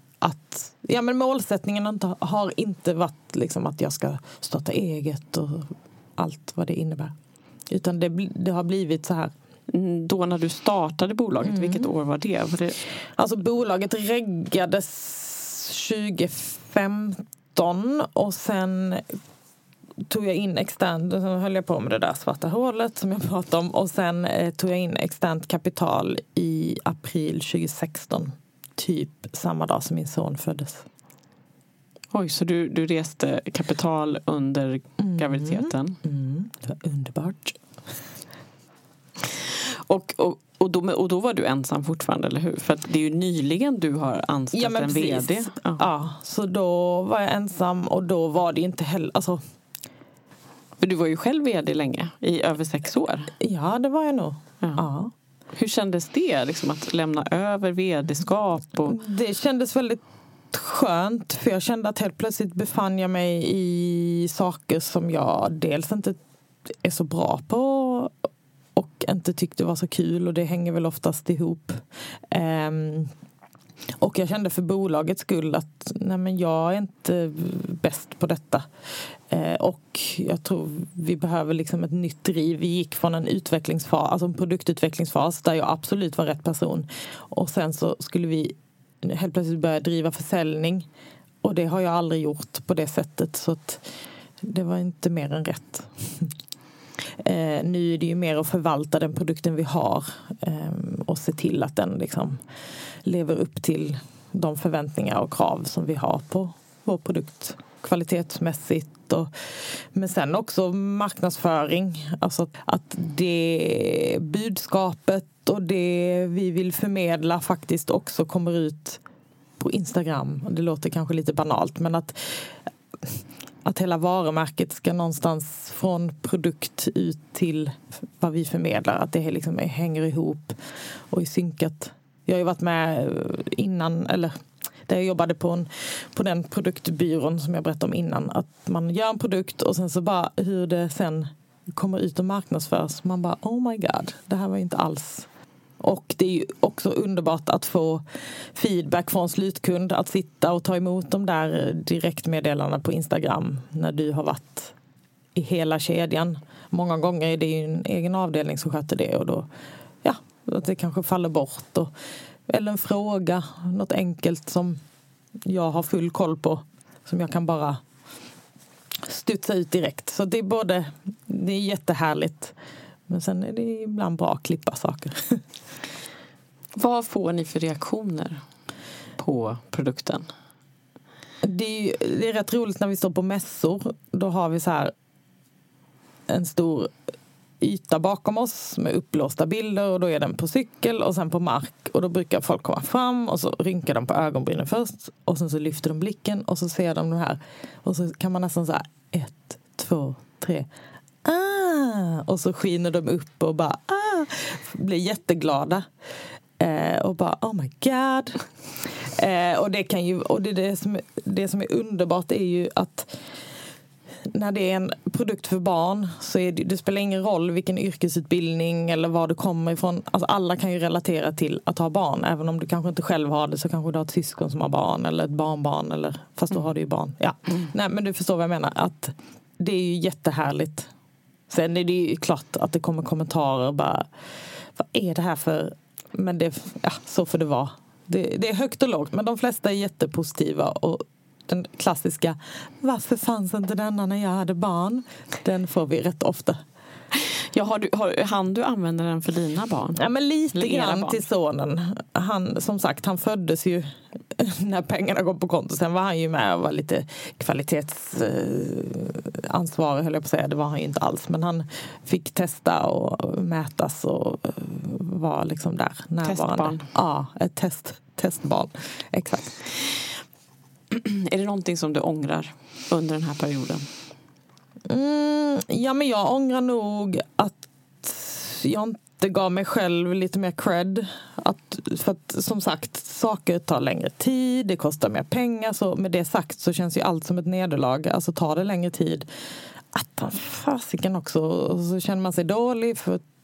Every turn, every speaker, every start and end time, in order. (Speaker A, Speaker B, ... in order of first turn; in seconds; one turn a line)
Speaker A: 0.2-7.1
Speaker A: 7.7-9.3
Speaker B: 9.7-12.8
Speaker A: 11.4-11.9
Speaker A: 13.2-19.0
Speaker A: 20.1-30.8
Speaker B: 32.1-36.0
Speaker A: 35.0-37.5
Speaker B: 39.3-45.8
Speaker A: 44.5-49.4
Speaker B: 50.8-53.3
Speaker A: 53.4-55.1
Speaker B: 55.5-59.0
Speaker A: 58.9-66.2
Speaker A: 66.8-68.1
Speaker A: 68.8-73.1
Speaker A: 74.0-78.7
Speaker A: 79.3-90.9
Speaker A: 91.4-93.8
Speaker A: 94.4-96.3
Speaker A: 97.2-102.4
Speaker A: 103.0-109.3
Speaker A: 109.9-119.0
Speaker A: 119.6-122.5
Speaker A: 123.6-130.6
Speaker A: 131.1-145.3
Speaker A: 145.8-148.0
Speaker A: 148.5-154.7
Speaker A: 155.3-159.5
Speaker A: 160.0-161.9
Speaker A: 162.5-164.8
Speaker A: 165.5-167.8
Speaker A: 169.0-172.5
Speaker A: 173.1-175.4
Speaker B: 176.8-178.4
Speaker B: 179.2-180.3
Speaker A: 181.4-184.9
Speaker A: 186.3-186.9
Speaker A: 187.6-200.7
Speaker A: 201.2-205.8
Speaker A: 206.6-208.4
Speaker A: 209.1-213.1
Speaker A: 214.2-230.9
Speaker A: 231.5-234.1
Speaker A: 234.8-246.6
Speaker B: 247.5-250.0
Speaker A: 250.0-269.6
Speaker B: 250.5-251.2
Speaker B: 266.2-266.9
Speaker B: 270.9-273.8
Speaker A: 274.9-289.2
Speaker A: 289.9-293.2